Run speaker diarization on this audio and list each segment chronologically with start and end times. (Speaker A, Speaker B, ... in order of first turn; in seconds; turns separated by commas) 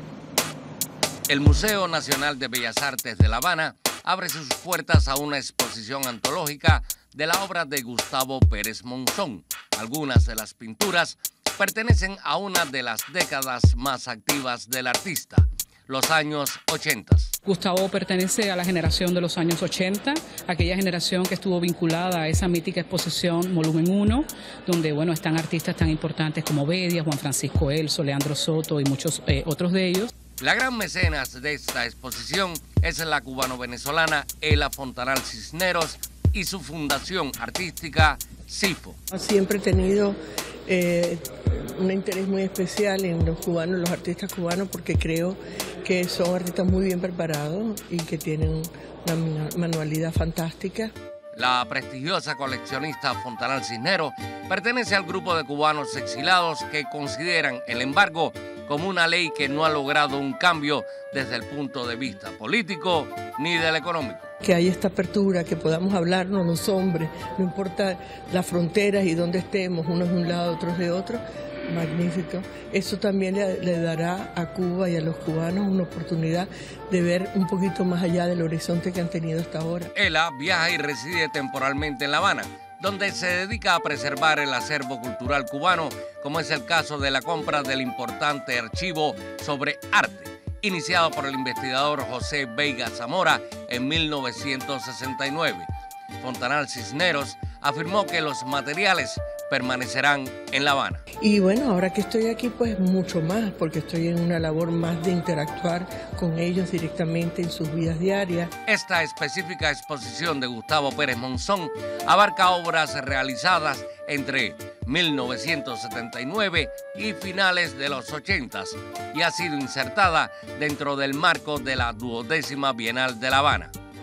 Speaker A: 1.3-17.3, Speaker B: 17.4-30.1, Speaker A: 30.4-39.0, Speaker C: 39.1-41.2, Speaker C: 41.8-50.9, Speaker A: 51.3-64.3, Speaker C: 64.4-79.9, Speaker A: 80.0-95.7, Speaker A: 96.2-101.0, Speaker C: 101.2-108.5, Speaker A: 108.7-123.7